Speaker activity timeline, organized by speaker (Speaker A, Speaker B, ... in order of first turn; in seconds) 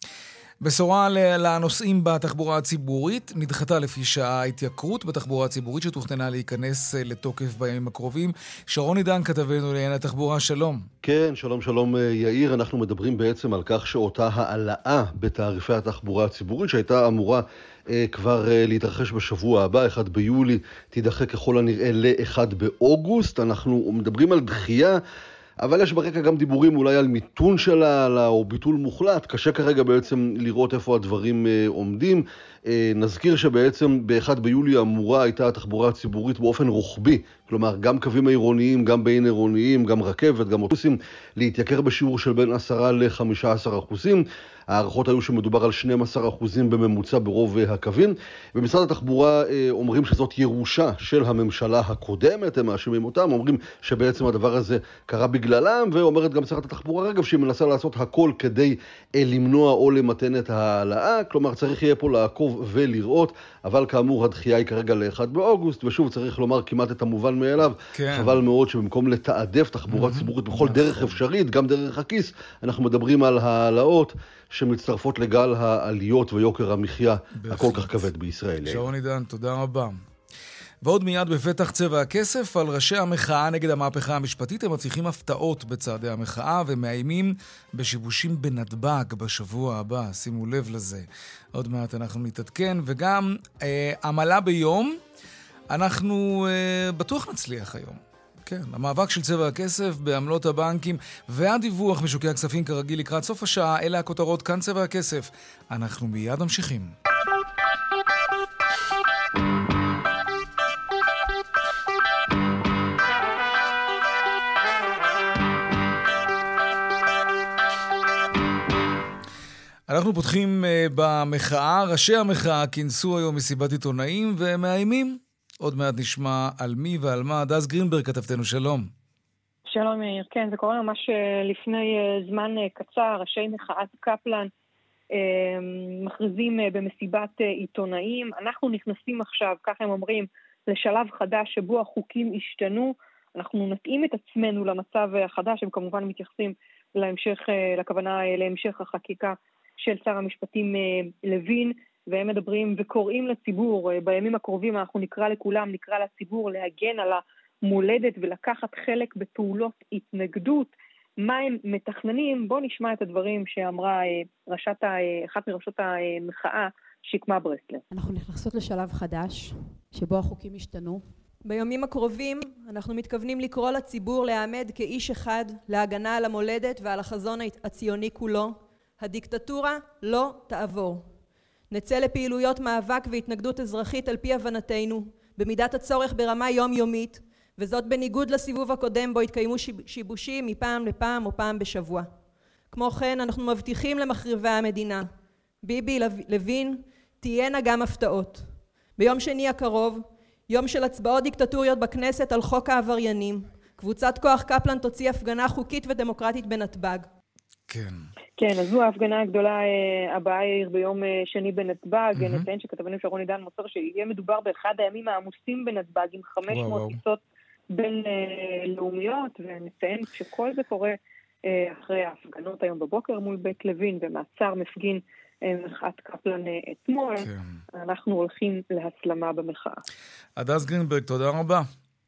Speaker A: 0.6-10.9, 68.0-68.4, 69.9-71.2, 77.4-78.0, 78.7-80.0, 80.8-95.0, 95.7-106.9, 119.9-128.9, 207.7-208.1, 212.1-212.5, 216.5-217.0, 227.2-227.6, 230.4-231.7
Speaker B: 11.0-25.0, 25.6-78.9
Speaker C: 129.7-134.5, 135.2-167.8, 208.4-217.2, 217.7-229.8
Speaker D: 167.9-171.2
Speaker E: 171.4-181.1, 181.7-192.1, 192.7-195.1, 195.6-207.1